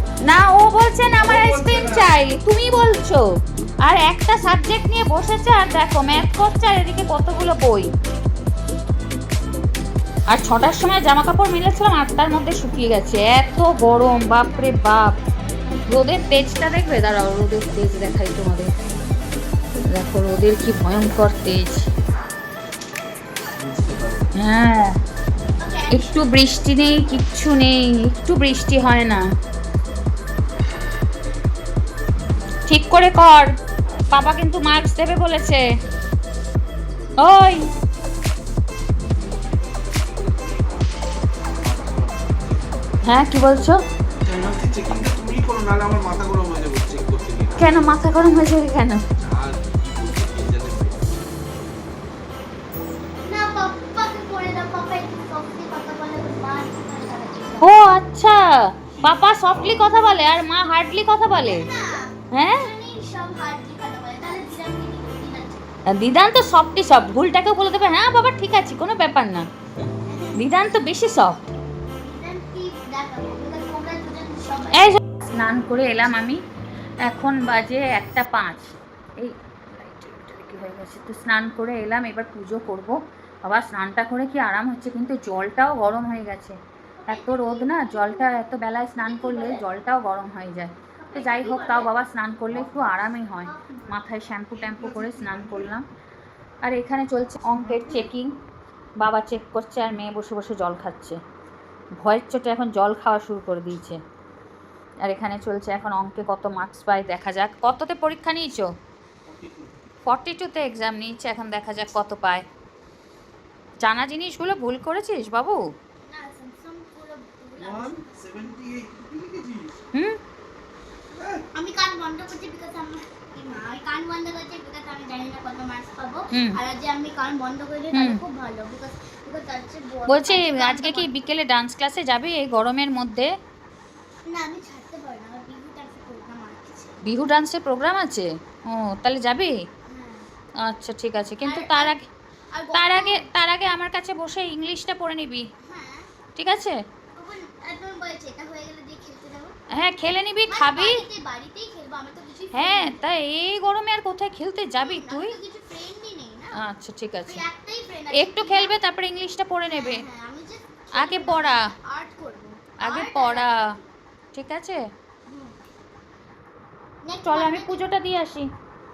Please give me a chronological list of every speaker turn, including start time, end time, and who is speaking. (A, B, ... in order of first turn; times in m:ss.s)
0:00.2-0:03.3 A
0:01.1-0:02.1 B
0:03.8-0:07.9 A
0:10.3-0:15.1 A
0:15.9-0:18.7 A
0:19.9-0:21.9 A
0:23.6-0:24.3 B
0:24.4-0:25.0 A
0:25.6-0:26.2 C
0:25.9-0:29.2 A
0:32.7-0:33.5 A
0:34.1-0:35.6 A
0:37.2-0:37.7 A
0:40.0-0:40.6 B
0:41.6-0:42.5 B
0:43.0-0:43.8 A
0:44.2-0:47.7 B
0:47.6-0:49.0 A
0:49.2-0:51.2 B
0:53.2-0:57.7 C
0:57.6-1:02.7 A
0:59.0-0:59.7 B
1:01.4-1:05.6 C
1:05.9-1:09.5 A
1:10.1-1:10.5 C
1:10.4-1:11.4 A
1:12.0-1:15.0 C
1:14.7-1:16.4 A
1:17.0-1:26.6 A
1:27.0-1:28.5 C
1:27.1-1:35.9 A
1:29.0-1:29.6 C
1:31.0-1:31.9 C
1:32.6-1:35.1 C
1:34.6-1:35.7 B
1:36.6-1:38.3 A
1:39.0-1:41.2 A
1:42.0-1:44.0 A
1:45.0-1:48.7 A
1:49.3-1:49.8 B
1:50.0-1:52.4 A
1:53.8-1:55.6 A
1:56.0-1:58.3 C
1:57.6-1:59.7 B
2:01.1-2:01.4 B
2:01.6-2:11.1 C
2:06.3-2:06.6 A
2:07.9-2:08.2 A
2:10.1-2:13.3 A
2:14.3-2:17.0 C
2:17.0-2:19.6 A
2:19.9-2:20.3 C
2:20.6-2:22.1 A
2:21.4-2:22.0 C
2:22.5-2:23.3 C
2:22.7-2:25.5 A
2:25.6-2:26.1 C
2:26.4-2:26.8 A
2:27.2-2:29.5 C
2:29.7-2:31.0 A
2:30.5-2:33.1 C
2:32.5-2:35.4 A
2:34.8-2:36.6 C
2:36.6-2:37.4 A
2:37.3-2:38.8 C
2:38.1-2:40.0 A
2:39.7-2:43.5 C
2:40.9-2:41.7 A
2:42.8-2:43.8 A
2:44.3-2:44.8 A
2:45.3-2:45.6 C
2:47.0-2:47.9 C
2:47.3-2:48.5 A